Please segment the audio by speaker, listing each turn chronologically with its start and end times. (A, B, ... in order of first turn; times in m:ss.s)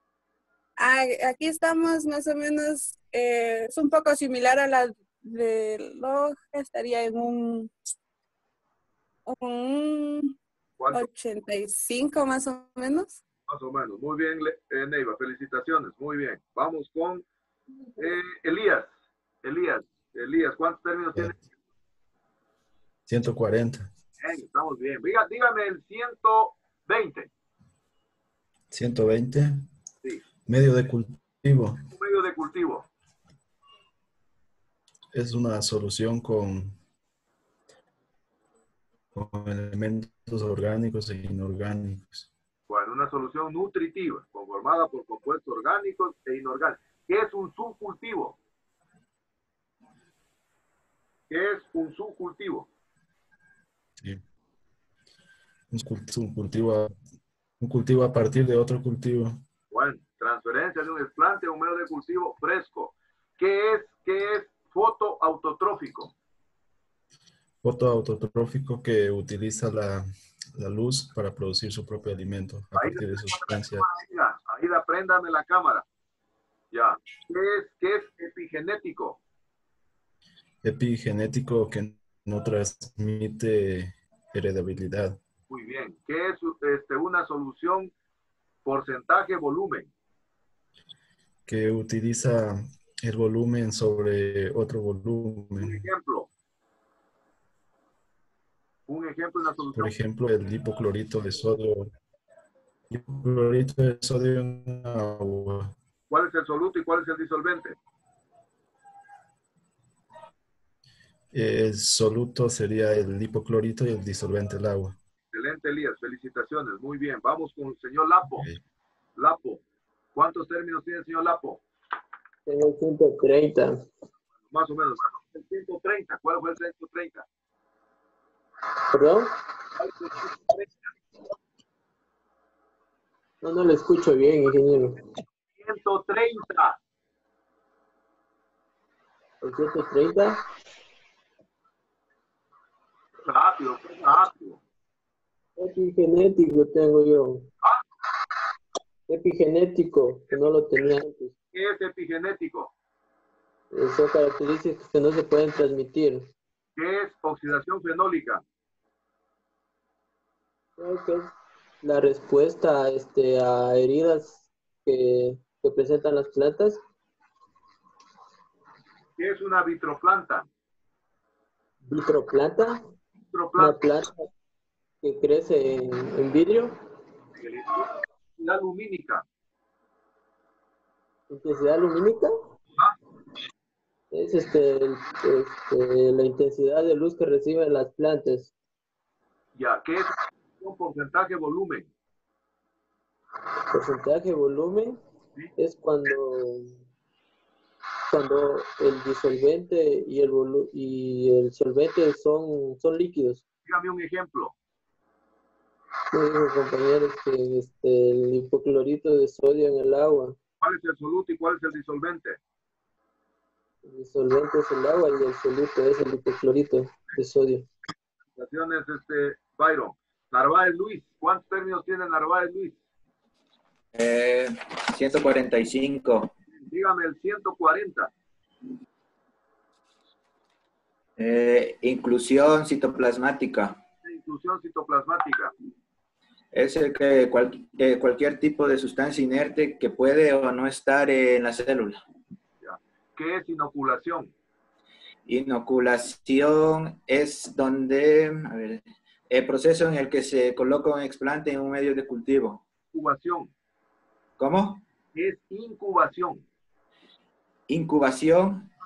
0:00.8-0:07.7 A
0:09.3-0:10.2 A
0:10.8-0:11.0 B
0:10.9-0:13.1 A
0:13.5-0:17.2 B
0:18.0-0:21.4 B
0:23.1-0:23.9 C
0:24.2-0:27.3 B
0:28.7-0:29.6 C
0:30.5-0:31.8 C
0:31.9-0:32.9 B
0:35.1-0:36.8 C
0:39.2-0:42.3 C
0:42.7-0:48.4 B
0:51.3-0:52.7 B
0:55.7-0:56.9 C
0:57.6-0:59.4 C
0:59.7-1:06.1 B
1:07.6-1:13.9 C
1:12.8-1:15.8 B
1:16.7-1:19.2 B
1:20.6-1:25.2 C
1:25.5-1:27.9 B
1:28.6-1:29.9 B
1:31.5-1:35.8 C
1:35.6-1:36.3 B
1:38.9-1:39.9 B
1:39.7-1:41.9 C
1:42.9-1:45.7 C
1:46.1-1:47.8 B
1:51.3-1:55.0 C
1:55.3-1:58.5 B
1:59.2-1:59.6 B
2:00.2-2:01.6 B
2:02.5-2:03.9 D
2:04.5-2:07.2 B
2:08.9-2:09.3 D
2:09.8-2:10.7 B
2:13.4-2:15.0 D
2:15.6-2:16.8 B
2:19.4-2:20.4 D
2:23.3-2:24.6 B
2:25.6-2:27.5 D
2:29.1-2:31.4 D
2:31.5-2:32.7 B
2:33.7-2:36.3 D
2:36.8-2:38.4 B
2:40.8-2:46.8 D
2:49.2-2:50.5 B
2:51.9-2:52.8 D
2:53.3-2:53.8 B
2:53.6-2:54.2 D
2:55.0-2:56.8 D
2:57.4-2:59.2 B
3:01.3-3:02.3 D
3:04.1-3:08.5 D
3:09.6-3:11.9 B
3:13.7-3:15.0 D
3:15.6-3:16.8 D
3:18.1-3:23.4 D
3:23.7-3:24.5 B
3:26.1-3:30.4 D
3:30.6-3:32.4 B
3:33.8-3:37.7 D
3:38.4-3:42.8 B
3:43.9-3:46.3 E
3:46.6-3:48.1 B
3:51.2-3:53.8 E
3:54.0-3:55.5 B
3:56.5-4:02.0 E
4:02.6-4:04.3 B
4:05.3-4:12.6 E
4:12.9-4:13.5 B
4:14.4-4:14.8 E
4:15.2-4:16.4 B
4:17.7-4:18.6 E